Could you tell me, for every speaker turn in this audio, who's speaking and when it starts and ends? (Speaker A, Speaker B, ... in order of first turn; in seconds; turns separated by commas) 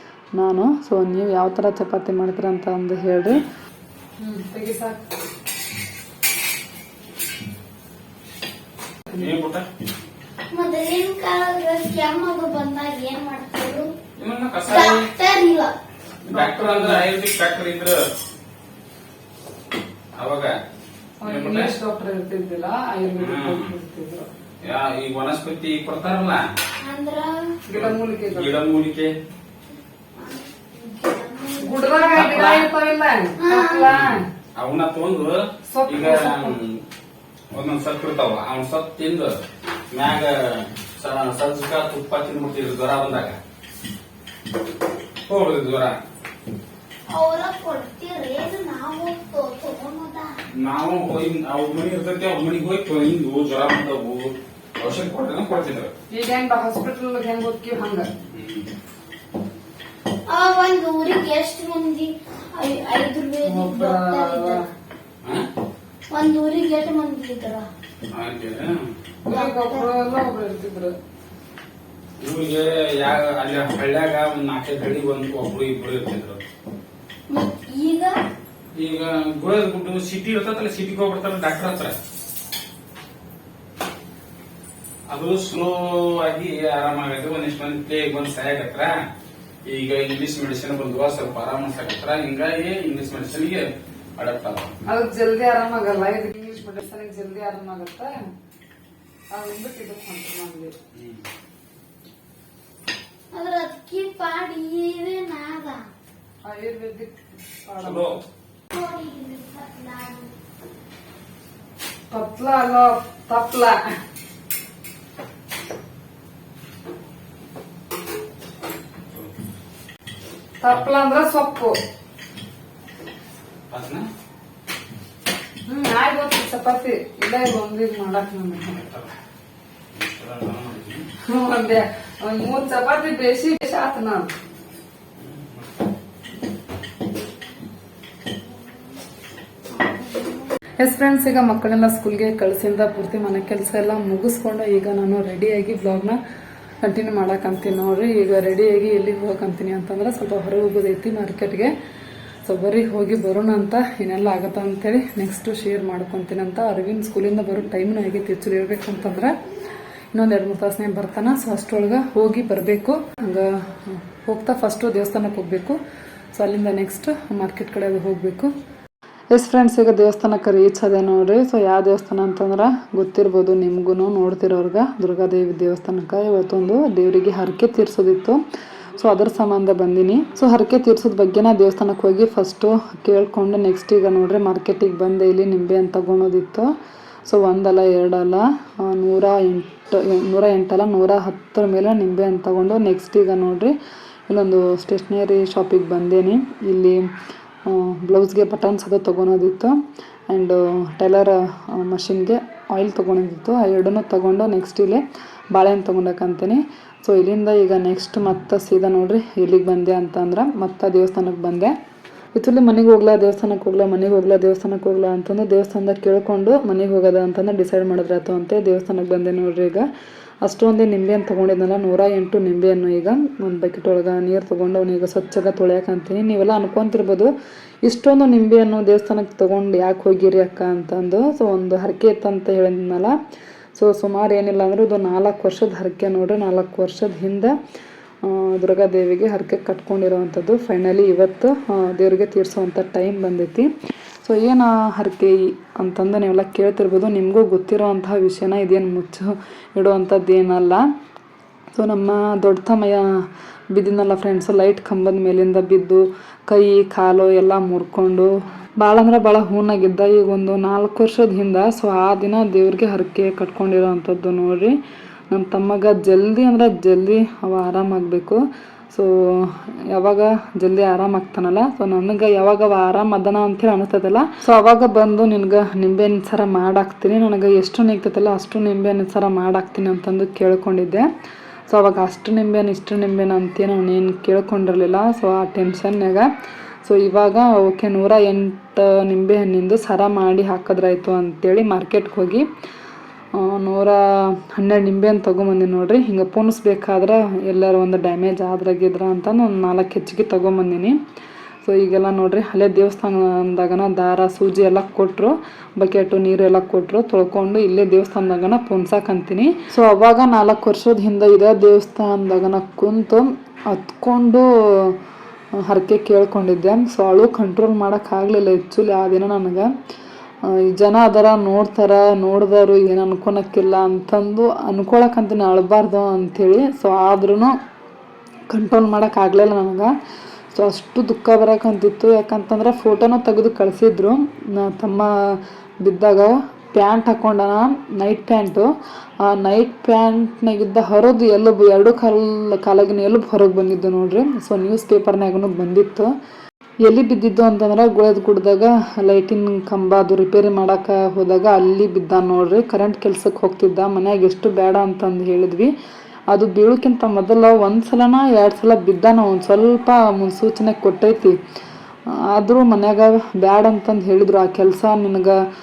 Speaker A: 0.3-3.4, Speaker A: 4.2-5.0, Speaker B: 9.1-9.7, Speaker C: 10.5-13.9, Speaker B: 14.2-15.1, Speaker C: 14.7-15.7, Speaker A: 16.2-17.1, Speaker B: 16.3-18.0, Speaker B: 20.2-20.5, Speaker A: 21.2-24.3, Speaker B: 21.2-21.7, Speaker B: 23.1-23.7, Speaker B: 24.6-26.4, Speaker C: 26.8-27.4, Speaker A: 27.7-28.5, Speaker B: 27.7-29.1, Speaker C: 30.2-32.3, Speaker A: 31.6-34.2, Speaker B: 32.1-32.7, Speaker C: 33.4-33.9, Speaker B: 33.9-36.8, Speaker A: 35.7-36.6, Speaker B: 37.5-39.3, Speaker B: 39.9-43.4, Speaker B: 45.3-46.0, Speaker C: 47.1-50.3, Speaker B: 50.6-55.9, Speaker A: 56.1-58.1, Speaker B: 58.3-58.7, Speaker C: 60.3-64.6, Speaker A: 63.4-64.6, Speaker C: 66.1-67.7, Speaker B: 68.1-68.9, Speaker A: 69.2-70.9, Speaker C: 69.3-69.9, Speaker B: 72.2-76.4, Speaker C: 77.3-78.2, Speaker B: 78.7-82.0, Speaker B: 85.1-88.9, Speaker B: 89.7-93.7, Speaker B: 94.2-94.7, Speaker A: 94.8-98.2, Speaker A: 99.3-100.7, Speaker B: 100.9-101.2, Speaker C: 103.3-105.8, Speaker A: 106.4-108.2, Speaker B: 107.8-108.2, Speaker C: 108.7-110.3, Speaker A: 112.1-113.8, Speaker B: 119.1-119.4, Speaker A: 120.6-121.8, Speaker B: 123.7-124.0, Speaker A: 125.7-128.8, Speaker B: 128.8-129.1, Speaker B: 129.9-131.1, Speaker A: 131.2-134.3, Speaker B: 135.2-135.7, Speaker C: 139.8-140.4, Speaker A: 140.8-146.2, Speaker A: 146.8-151.7, Speaker A: 152.4-159.3, Speaker A: 160.1-165.8, Speaker A: 166.3-168.5, Speaker A: 169.3-178.4, Speaker A: 179.0-186.7, Speaker A: 187.2-193.7, Speaker A: 194.3-197.0, Speaker A: 197.7-199.7, Speaker A: 200.3-211.7, Speaker A: 212.3-219.9, Speaker A: 220.4-227.3, Speaker A: 227.8-233.1, Speaker A: 233.7-237.5, Speaker A: 238.2-243.7, Speaker A: 244.2-250.8, Speaker A: 251.7-253.1, Speaker A: 253.7-264.8, Speaker A: 265.3-268.4, Speaker A: 268.9-281.0, Speaker A: 281.7-286.3, Speaker A: 286.8-292.4, Speaker A: 293.3-301.0, Speaker A: 301.6-315.0, Speaker A: 315.6-319.7, Speaker A: 320.4-327.5, Speaker A: 328.5-329.9, Speaker A: 330.5-338.7, Speaker A: 339.2-346.1, Speaker A: 346.8-355.7, Speaker A: 356.3-361.4, Speaker A: 362.1-365.4